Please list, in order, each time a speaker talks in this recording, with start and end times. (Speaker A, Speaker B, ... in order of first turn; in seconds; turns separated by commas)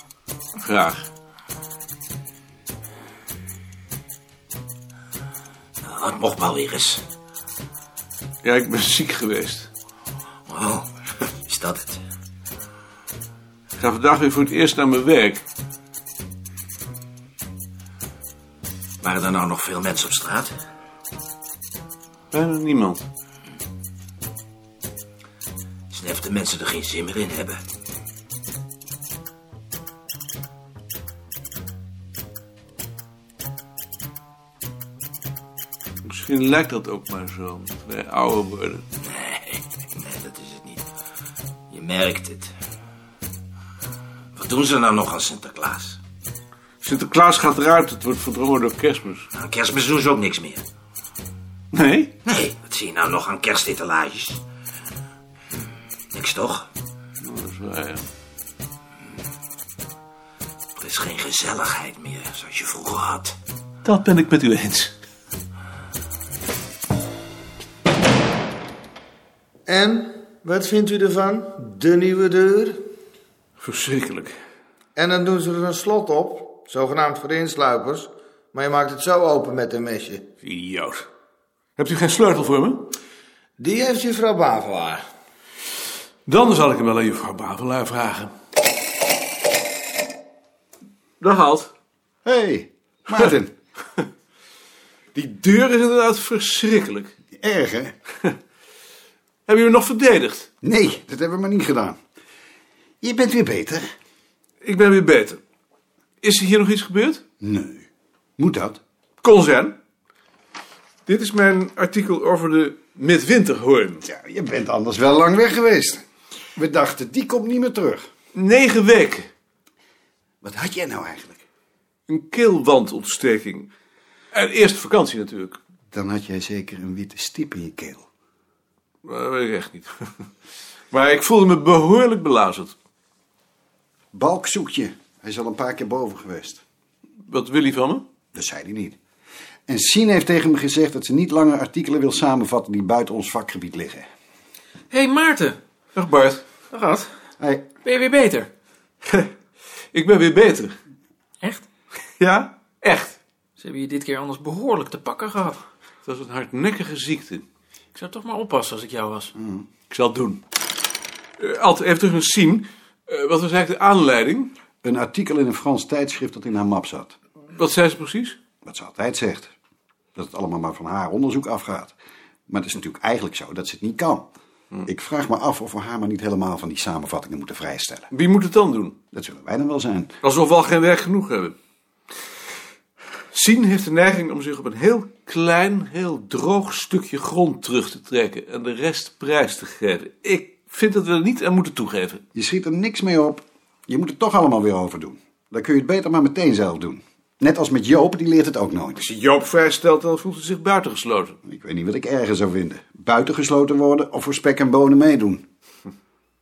Speaker A: 0.6-1.1, Speaker B: 5.8-7.0, Speaker A: 8.4-9.7, Speaker B: 10.5-10.9, Speaker B: 11.4-12.0, Speaker A: 13.8-15.4, Speaker B: 19.0-20.6, Speaker A: 22.3-23.1, Speaker B: 25.9-27.6, Speaker A: 36.0-38.9, Speaker B: 39.0-40.8, Speaker B: 41.7-42.5, Speaker B: 44.4-46.0, Speaker A: 46.8-49.3, Speaker B: 49.3-50.6, Speaker A: 51.7-52.2, Speaker B: 52.3-54.4, Speaker B: 56.1-56.7, Speaker A: 57.2-58.1, Speaker B: 60.8-63.4, Speaker A: 63.8-65.0, Speaker C: 69.7-72.9, Speaker A: 73.6-74.4, Speaker C: 75.0-80.2, Speaker A: 80.4-81.1, Speaker A: 81.8-82.9, Speaker C: 83.6-85.0, Speaker A: 86.3-88.3, Speaker A: 91.2-91.7, Speaker D: 92.2-93.5, Speaker A: 95.2-97.1, Speaker D: 97.3-97.9, Speaker A: 99.5-100.5, Speaker D: 100.6-102.0, Speaker D: 103.0-103.9, Speaker A: 104.6-105.4, Speaker A: 106.2-107.2, Speaker D: 107.4-107.9, Speaker D: 108.4-108.8, Speaker A: 109.2-109.8, Speaker A: 111.1-114.0, Speaker D: 114.0-116.0, Speaker D: 116.6-118.1, Speaker A: 118.3-119.3, Speaker D: 120.4-121.4, Speaker A: 122.1-123.7, Speaker A: 124.3-125.6, Speaker D: 125.9-128.1, Speaker A: 129.0-129.9, Speaker A: 130.9-132.8, Speaker D: 134.1-136.6, Speaker A: 137.2-138.1, Speaker D: 138.3-139.0, Speaker D: 139.7-144.1, Speaker E: 144.9-145.6, Speaker A: 145.9-146.5, Speaker E: 146.7-147.1, Speaker D: 147.4-147.7, Speaker E: 147.8-148.5, Speaker A: 149.9-150.8, Speaker A: 152.2-153.2, Speaker E: 153.6-155.6, Speaker A: 156.0-157.5, Speaker E: 157.9-159.3, Speaker D: 159.4-159.7, Speaker A: 159.9-160.4, Speaker A: 161.4-164.5, Speaker D: 164.8-167.2, Speaker A: 167.5-168.4, Speaker D: 168.6-169.5, Speaker D: 170.2-172.0, Speaker D: 172.5-174.3, Speaker D: 174.8-178.1, Speaker A: 178.1-179.0, Speaker D: 179.1-180.1, Speaker A: 180.2-181.6, Speaker A: 183.3-192.2, Speaker D: 192.3-199.0, Speaker A: 199.0-201.4, Speaker D: 201.4-205.4